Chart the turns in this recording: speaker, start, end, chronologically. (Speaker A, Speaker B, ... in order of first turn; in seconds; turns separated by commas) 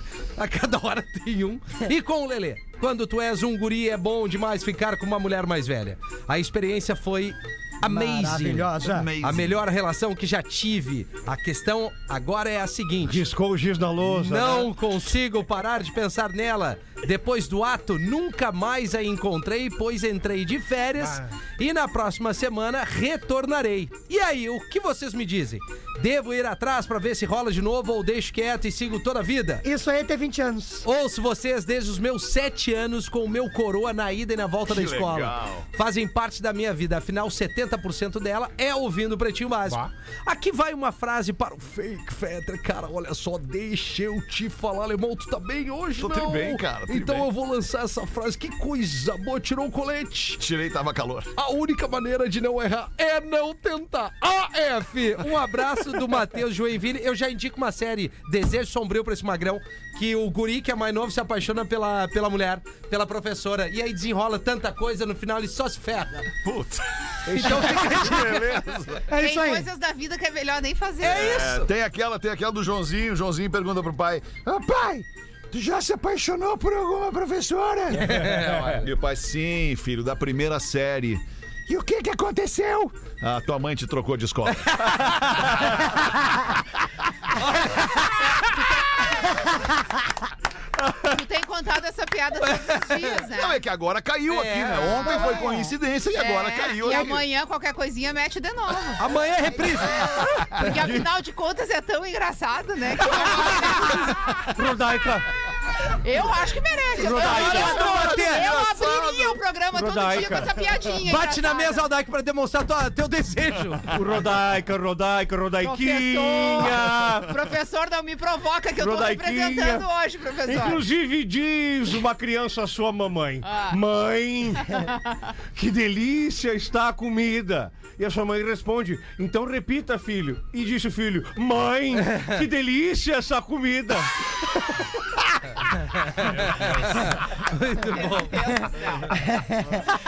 Speaker A: 0.3-13.2, Speaker B: 7.8-9.1, Speaker C: 8.8-9.6, Speaker D: 13.0-14.7, Speaker A: 14.0-29.6, Speaker B: 29.6-30.9, Speaker A: 30.8-50.4, Speaker C: 34.7-35.7, Speaker C: 46.0-47.3, Speaker C: 50.4-51.3, Speaker A: 51.4-66.3, Speaker C: 66.4-69.0, Speaker A: 67.3-68.4, Speaker B: 67.5-68.2, Speaker B: 69.0-69.7, Speaker E: 69.2-71.5, Speaker A: 71.0-71.7, Speaker C: 71.1-85.9, Speaker A: 77.9-78.9, Speaker A: 84.6-85.3, Speaker A: 87.4-88.5, Speaker E: 88.4-88.8, Speaker E: 91.0-93.6, Speaker A: 92.5-93.0, Speaker C: 93.3-97.2, Speaker A: 94.3-95.5, Speaker E: 96.1-99.1, Speaker A: 99.0-100.6, Speaker E: 100.5-104.4, Speaker D: 100.7-101.0, Speaker D: 104.5-105.3, Speaker E: 106.0-111.8, Speaker D: 107.0-107.9, Speaker A: 107.1-108.5, Speaker C: 107.5-109.4, Speaker D: 109.7-110.5, Speaker A: 111.0-114.0, Speaker D: 113.9-117.3, Speaker E: 115.6-120.8, Speaker D: 118.8-119.8, Speaker D: 120.4-124.9, Speaker E: 123.4-123.8, Speaker E: 124.7-125.2, Speaker D: 125.5-134.1, Speaker A: 132.1-132.4, Speaker A: 135.9-138.6, Speaker E: 137.8-139.2, Speaker B: 139.2-139.8